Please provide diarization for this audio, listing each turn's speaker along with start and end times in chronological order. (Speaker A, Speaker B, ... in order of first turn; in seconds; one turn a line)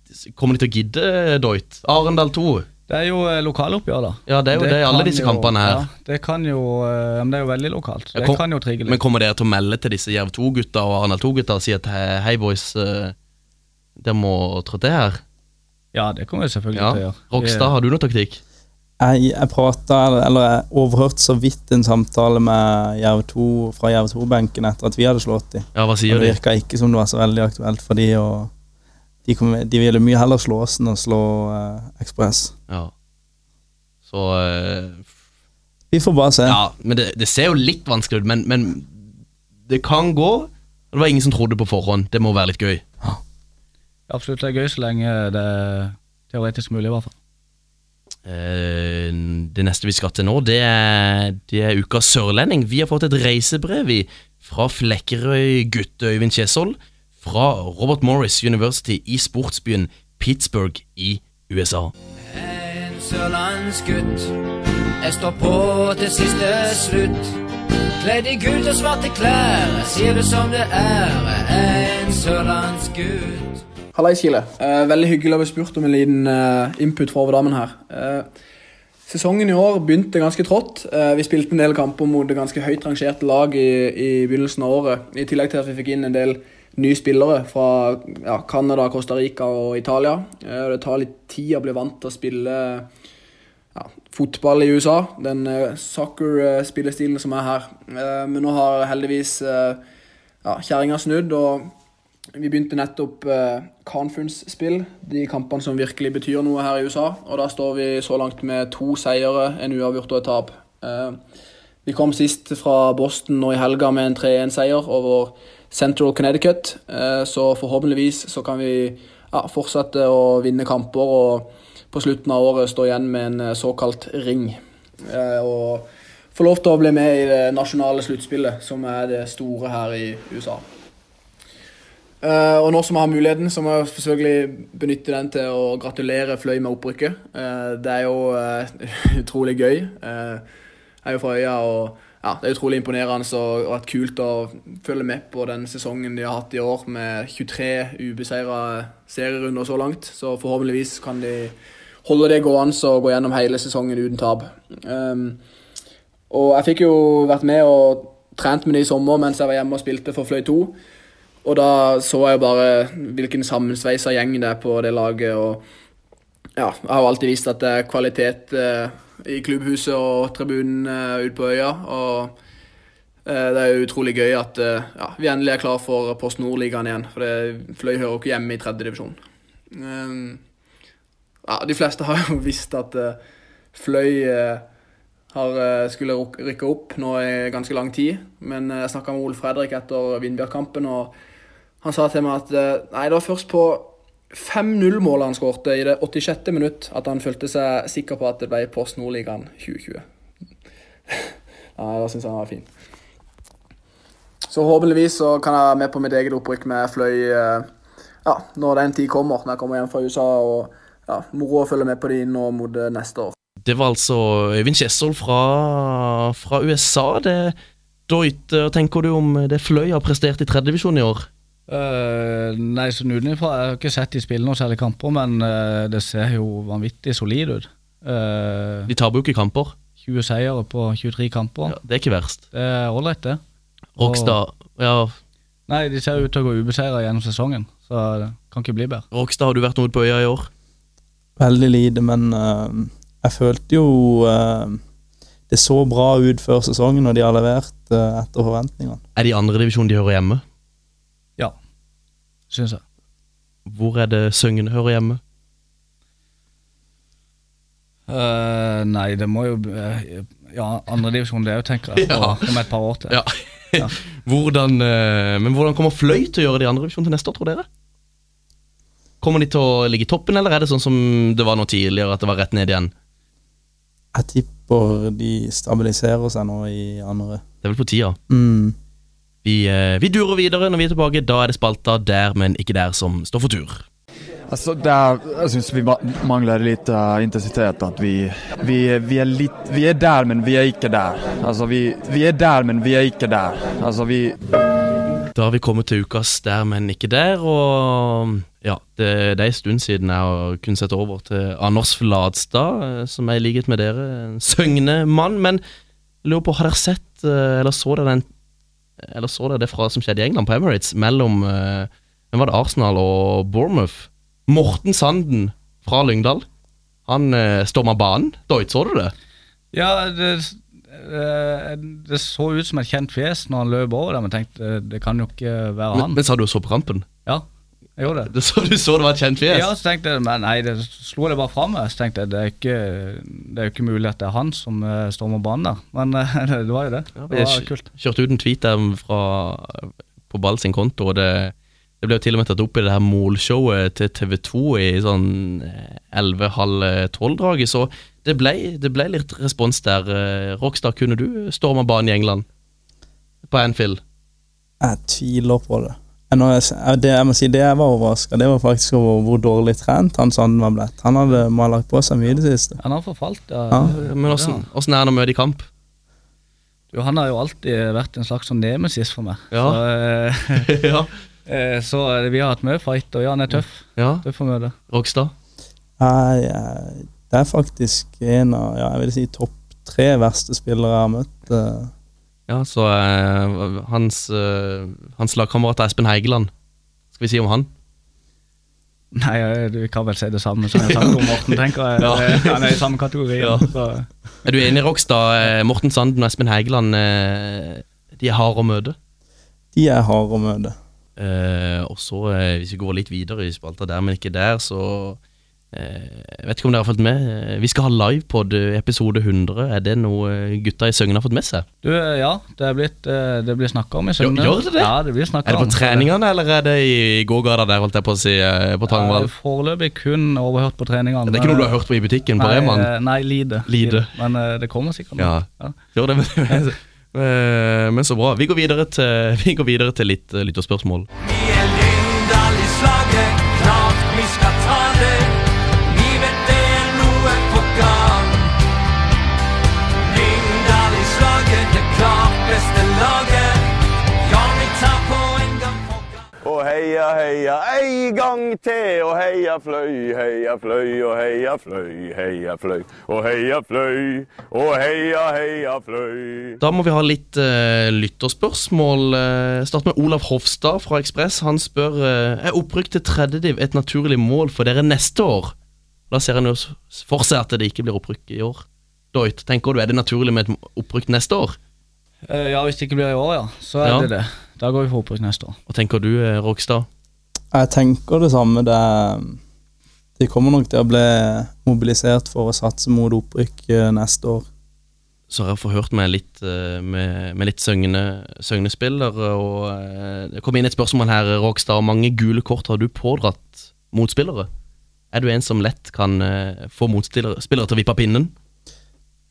Speaker A: 0.2-2.7
Speaker B: 2.9-9.0
Speaker A: 4.3-5.8
Speaker A: 8.1-13.1
Speaker A: 14.0-15.2
Speaker B: 15.9-17.7
Speaker A: 16.7-18.4
Speaker C: 19.0-28.5
Speaker A: 25.7-26.4
Speaker C: 29.2-32.5
Speaker A: 34.0-35.1
Speaker C: 35.9-36.6
Speaker A: 36.5-39.0
Speaker A: 39.7-42.8
Speaker B: 44.1-47.1
Speaker A: 48.2-61.9
Speaker D: 62.3-64.3
Speaker D: 65.0-67.3
Speaker D: 68.0-73.6
Speaker E: 73.9-78.3
Speaker E: 79.1-92.9
Speaker E: 93.7-99.8
Speaker E: 100.4-101.7
Speaker E: 102.3-111.2
Speaker E: 111.8-130.6
Speaker E: 132.2-140.4
Speaker E: 141.0-155.4
Speaker E: 156.3-160.8
Speaker E: 161.4-165.6
Speaker E: 166.6-172.3
Speaker E: 173.2-179.2
Speaker E: 179.7-180.4
Speaker E: 181.4-183.2
Speaker E: 183.7-184.6
Speaker E: 185.3-191.1
Speaker E: 191.8-200.0
Speaker E: 201.8-202.7
Speaker E: 204.5-207.7
Speaker E: 208.2-213.3
Speaker A: 213.6-217.5
Speaker A: 218.1-221.3
Speaker B: 221.7-228.9
Speaker A: 228.9-229.7
Speaker B: 230.0-231.8
Speaker A: 231.7-232.4
Speaker B: 232.5-233.4
Speaker A: 234.0-235.1
Speaker B: 234.0-234.4
Speaker B: 235.7-239.0
Speaker A: 239.1-240.5
Speaker C: 241.4-244.8
Speaker C: 245.5-249.0
Speaker A: 249.2-250.4
Speaker B: 252.5-252.8
Speaker A: 253.7-255.2
Speaker B: 258.1-263.2
Speaker A: 261.9-262.5
Speaker A: 263.1-267.6
Speaker A: 269.2-272.9
Speaker C: 274.1-277.4
Speaker A: 277.6-278.2
Speaker C: 278.3-278.8
Speaker A: 279.4-283.8
Speaker F: 284.5-294.4
Speaker A: 295.3-305.6
Speaker A: 306.2-308.2
Speaker A: 309.0-316.4
Speaker A: 317.1-319.1
Speaker B: 319.7-326.2
Speaker A: 325.9-327.1
Speaker B: 328.0-328.3
Speaker A: 328.2-329.7
Speaker B: 329.5-337.9
Speaker A: 337.2-352.4
Speaker A: 353.4-354.0
Speaker C: 354.8-362.8
Speaker B: 362.8-364.6
Speaker A: 363.9-365.7
Speaker B: 366.9-370.7
Speaker A: 369.5-369.8
Speaker A: 370.6-371.1
Speaker B: 371.5-374.7
Speaker A: 374.0-374.2
Speaker A: 374.9-375.3
Speaker C: 376.0-381.9
Speaker A: 382.5-386.5
Speaker A: 387.1-387.7
Speaker B: 389.1-394.1
Speaker A: 390.7-392.8
Speaker A: 393.4-393.7
Speaker A: 394.4-398.9
Speaker C: 399.7-400.8
Speaker A: 401.2-405.2
Speaker A: 405.7-411.6
Speaker B: 411.8-416.1
Speaker A: 414.2-414.9
Speaker A: 415.4-419.3
Speaker B: 418.9-421.7
Speaker A: 421.3-422.9
Speaker B: 422.4-425.7
Speaker A: 423.7-424.1
Speaker A: 425.2-431.1
Speaker G: 431.2-438.5
Speaker G: 440.1-443.7
Speaker G: 444.2-446.2
Speaker H: 446.4-456.6
Speaker A: 456.6-465.5
Speaker A: 466.1-471.6
Speaker B: 472.3-475.6
Speaker A: 473.8-474.1
Speaker A: 475.7-476.9
Speaker C: 477.5-479.4
Speaker C: 480.2-484.4
Speaker A: 485.3-494.5
Speaker A: 495.1-498.3